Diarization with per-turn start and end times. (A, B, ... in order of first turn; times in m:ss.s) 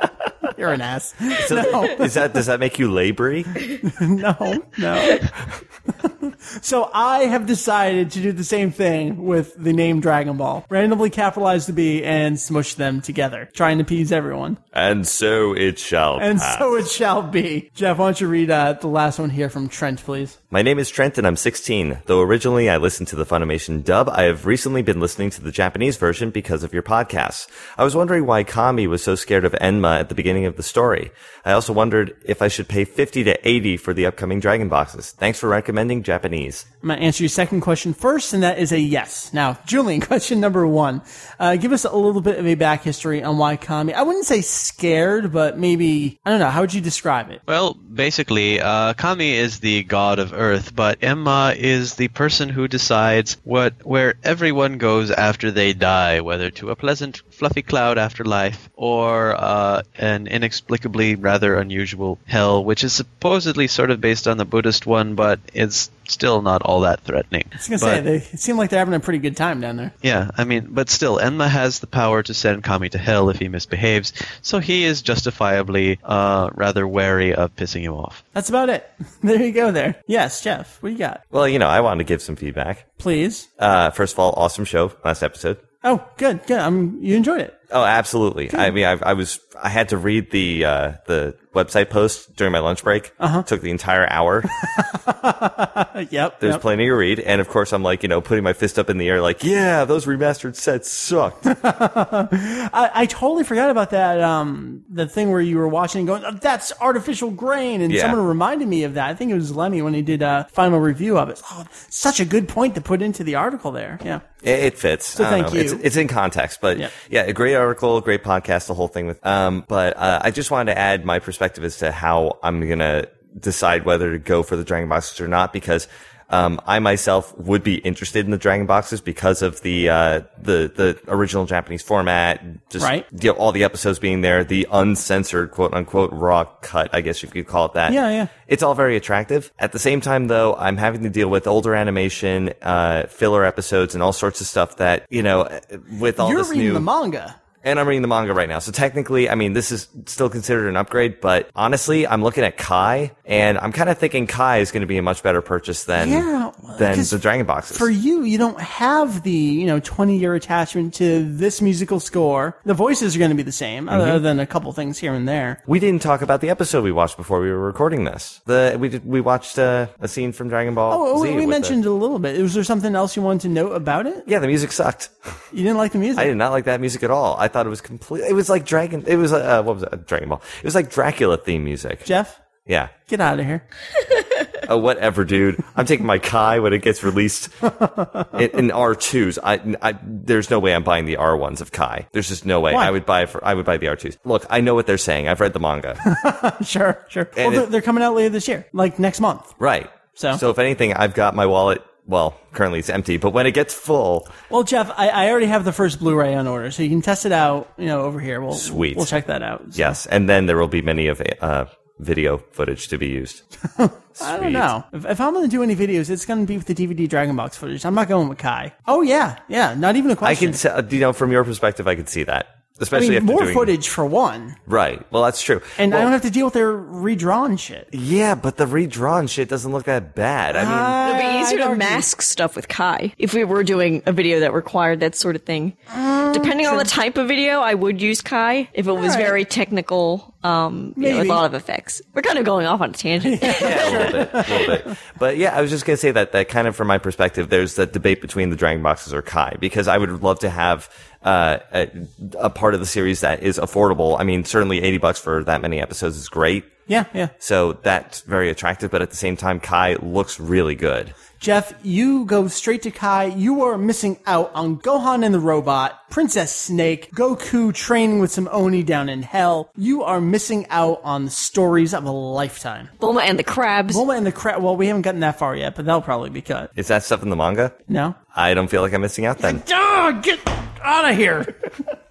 0:00.5-0:02.1 A
0:01.4-0:03.6 B
0:03.8-0:05.3 A
0:06.0-0:14.6 A
0:14.7-0:16.8 B
0:16.2-0:20.3 A
0:20.5-0:36.6 B
0:36.8-0:47.4 A
0:47.5-1:08.0 C
1:07.6-1:09.9 A
1:10.0-1:18.2 C
1:18.3-1:21.2 A
1:21.3-1:22.9 B
1:23.0-1:23.5 A
1:23.6-1:25.6 B
1:25.8-1:27.5 A
1:27.7-1:34.5 B
1:33.2-1:33.4 A
1:34.6-1:36.6 A
1:36.4-1:41.4 B
1:41.4-1:54.2 A
1:47.9-1:48.2 B
1:54.4-2:26.9 B
1:55.2-1:55.8 A
2:12.8-2:13.0 A
2:17.9-2:18.3 A
2:26.2-2:27.4 A
2:27.6-2:37.9 B
2:36.0-2:37.2 A
2:37.7-2:45.6 A
2:43.9-2:44.2 B
2:45.7-2:51.8 B
2:50.9-2:54.3 A
2:54.2-2:55.4 B
2:55.5-2:56.3 A
2:56.1-3:02.1 B
3:02.0-3:02.4 A
3:02.6-3:02.9 B
3:03.0-3:03.6 A
3:04.6-3:07.7 B
3:07.7-3:08.3 A
3:08.3-3:16.0 B
3:16.0-3:19.5 A
3:17.4-3:17.6 B
3:19.6-3:24.3 B
3:20.1-3:20.4 A
3:24.5-3:30.0 A
3:28.5-3:29.2 B
3:29.7-3:33.4 B
3:33.8-3:40.6 A
3:34.2-3:34.7 B
3:40.2-3:43.7 B
3:42.9-3:44.6 A
3:44.7-3:46.1 B
3:45.8-3:47.9 A
3:47.9-3:51.0 B
3:50.5-3:52.0 A
3:51.0-4:04.7 D
3:55.9-3:56.9 A
3:58.9-3:59.4 A
4:01.0-4:01.4 A
4:03.2-4:04.9 A
4:03.5-4:16.7 B
4:16.9-4:17.3 A
4:17.4-4:21.1 B
4:21.4-4:32.9 A
4:33.0-4:34.0 D
4:33.9-4:36.7 A
4:36.8-4:37.8 B
4:37.9-4:38.2 A
4:38.3-4:39.6 B
4:39.4-4:41.7 A